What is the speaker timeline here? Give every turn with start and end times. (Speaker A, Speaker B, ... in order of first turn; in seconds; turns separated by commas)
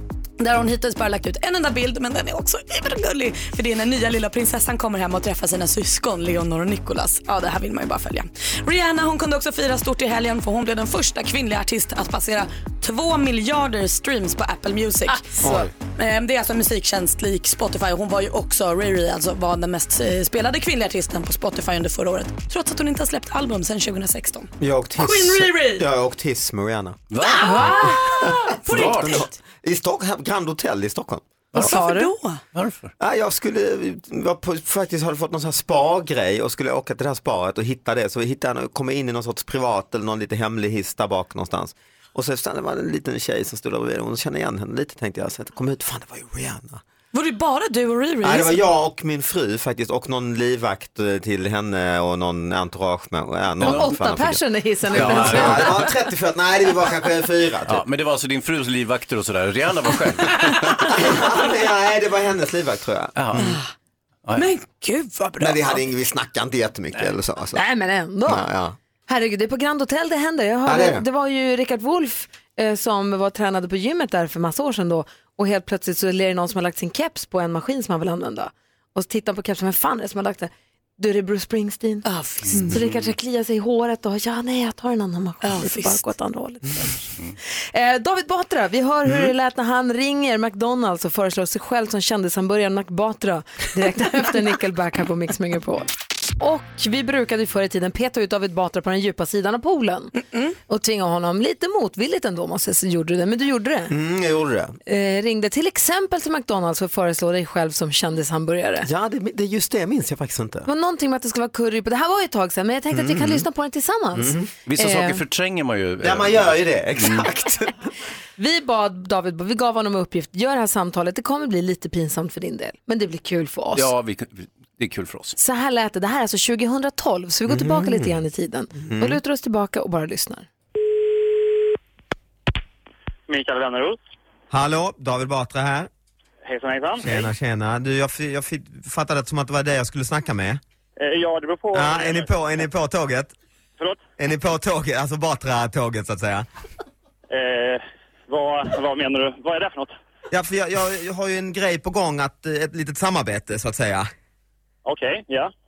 Speaker A: 0.4-15.4, Speaker B: 15.4-15.7, Speaker C: 15.4-15.7, Speaker A: 16.0-25.9, Speaker C: 24.6-27.0, Speaker D: 27.1-28.0, Speaker A: 27.2-29.3, Speaker B: 27.4-28.0, Speaker C: 28.1-31.2, Speaker D: 28.7-29.3, Speaker B: 31.6-32.1, Speaker A: 31.6-32.4, Speaker D: 32.5-32.9, Speaker C: 33.0-46.8, Speaker A: 47.1-48.6, Speaker C: 48.2-54.4, Speaker D: 53.6-54.2, Speaker B: 53.6-55.9, Speaker D: 54.9-55.9, Speaker C: 55.0-57.8, Speaker D: 57.7-60.9, Speaker C: 60.9-63.5, Speaker D: 63.1-63.6, Speaker A: 63.4-63.7, Speaker A: 64.3-65.8, Speaker C: 65.4-67.6, Speaker B: 67.5-68.5, Speaker C: 68.3-68.8, Speaker B: 69.1-87.0, Speaker C: 70.7-71.0, Speaker A: 82.0-82.8, Speaker D: 82.6-83.1, Speaker A: 85.4-86.0, Speaker B: 87.7-100.1, Speaker B: 100.7-103.9, Speaker C: 103.9-104.8, Speaker B: 104.9-108.9, Speaker C: 108.8-110.7, Speaker B: 110.7-115.2, Speaker C: 112.9-113.5, Speaker C: 114.2-114.5, Speaker D: 114.7-117.3, Speaker C: 116.0-117.7, Speaker B: 118.4-123.9, Speaker D: 123.8-125.4, Speaker B: 125.4-130.5, Speaker C: 127.5-128.2, Speaker C: 128.7-129.2, Speaker E: 133.3-134.0, Speaker C: 134.5-135.9, Speaker E: 136.4-137.2, Speaker C: 137.0-140.6, Speaker E: 141.0-142.3, Speaker C: 141.7-143.3, Speaker E: 143.8-144.0, Speaker C: 144.2-146.5, Speaker E: 147.3-149.9, Speaker C: 150.3-154.1, Speaker E: 154.8-155.5